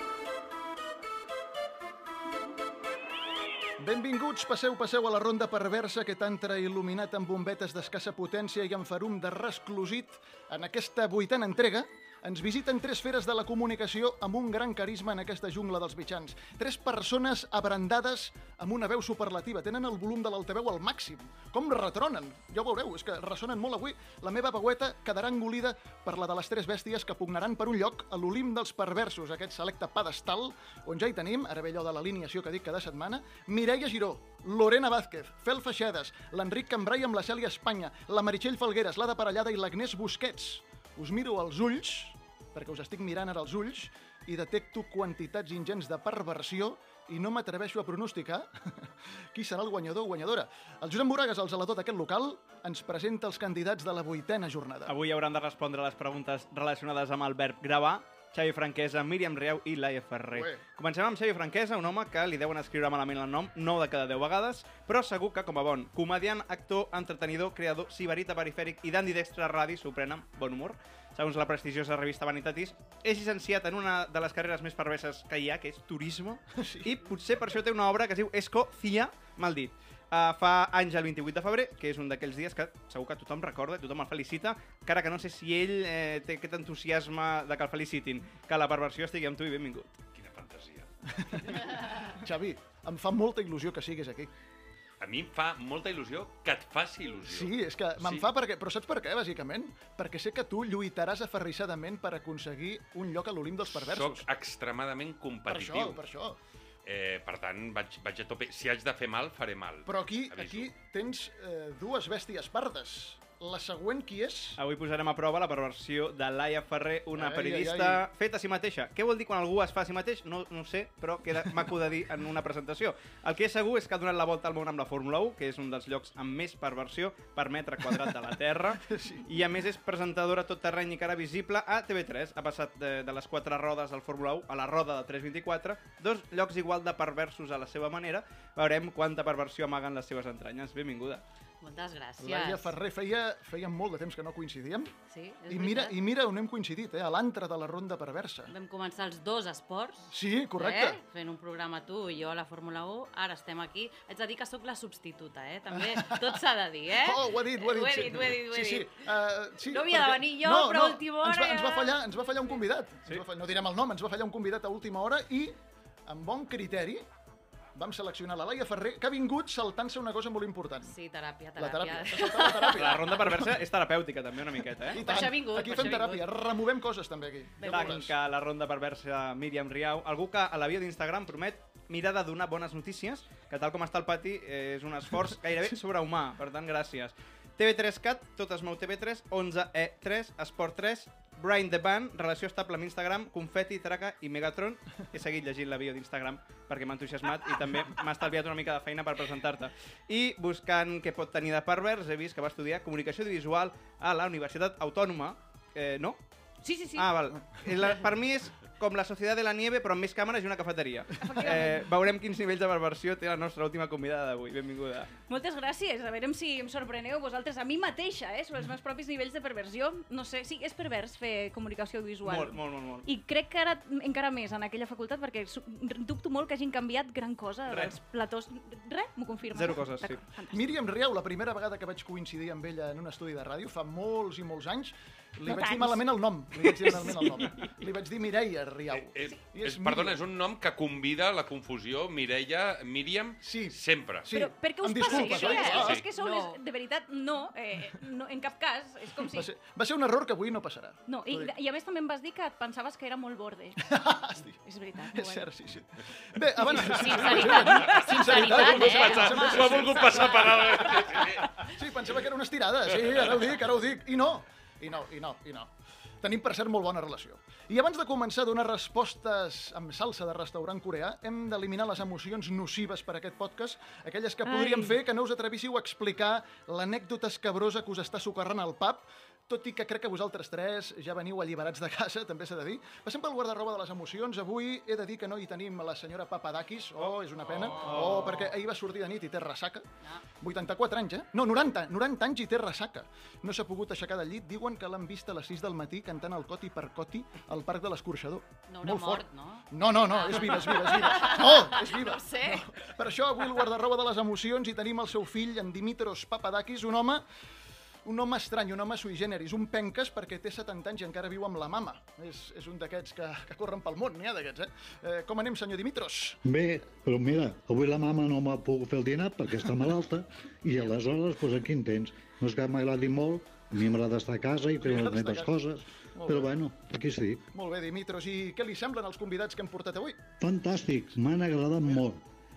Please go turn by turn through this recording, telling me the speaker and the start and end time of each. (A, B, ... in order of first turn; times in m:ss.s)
0:03.8-0:55.0 A
0:54.9-1:29.9 B
1:00.3-1:00.6 A
1:16.6-1:17.0 A
1:30.2-1:30.9 C
1:31.1-1:34.3 A
1:35.0-1:38.3 C
1:37.2-1:44.2 A
1:43.7-1:46.0 C
1:45.5-1:46.4 A
1:46.8-1:50.7 C
1:49.9-1:54.6 A
1:54.6-2:21.2 B
1:57.1-1:58.0 A
2:08.9-2:09.3 A
2:21.6-2:22.7 D
2:22.2-2:24.9 A
2:25.1-2:26.0 D
2:25.5-2:28.5 A
2:28.5-2:39.0 D
2:30.1-2:31.0 A
2:35.7-2:36.4 A
2:36.9-2:45.6 A
2:39.6-2:42.0 D
2:46.1-2:47.0 A
2:47.8-2:51.0 A
2:50.8-2:52.9 D
2:51.6-2:53.6 A
2:52.8-2:55.1 B
2:54.9-2:58.1 A
2:55.0-2:56.2 D
2:57.6-2:58.0 D
2:57.7-3:26.2 B
3:26.6-3:27.0 E
3:27.0-3:35.1 B
3:31.2-3:31.8 E
3:35.3-3:50.6 E
3:42.2-3:43.1 B
3:49.5-3:50.2 B
3:50.5-4:00.2 A
3:55.4-3:56.0 E
3:57.0-3:57.3 E
3:58.9-4:04.3 C
4:03.4-4:06.0 A
4:04.3-4:09.5 E
4:05.0-4:06.6 D
4:05.7-4:06.0 C
4:09.2-4:11.5 A
4:11.1-4:13.8 E
4:13.8-4:14.6 A
4:14.6-4:15.5 E
4:15.1-4:25.7 A
4:16.6-4:19.6 E
4:16.7-4:20.3 D
4:18.6-4:21.6 C
4:26.2-4:49.9 A
4:34.5-4:34.8 E
4:47.8-4:48.5 B
4:50.4-5:07.3 A
4:58.7-5:02.7 D
5:08.0-5:16.4 A
5:16.4-5:27.4 F
5:24.8-5:25.6 A
5:26.1-5:26.5 A
5:27.5-5:30.2 A
5:30.4-5:32.2 F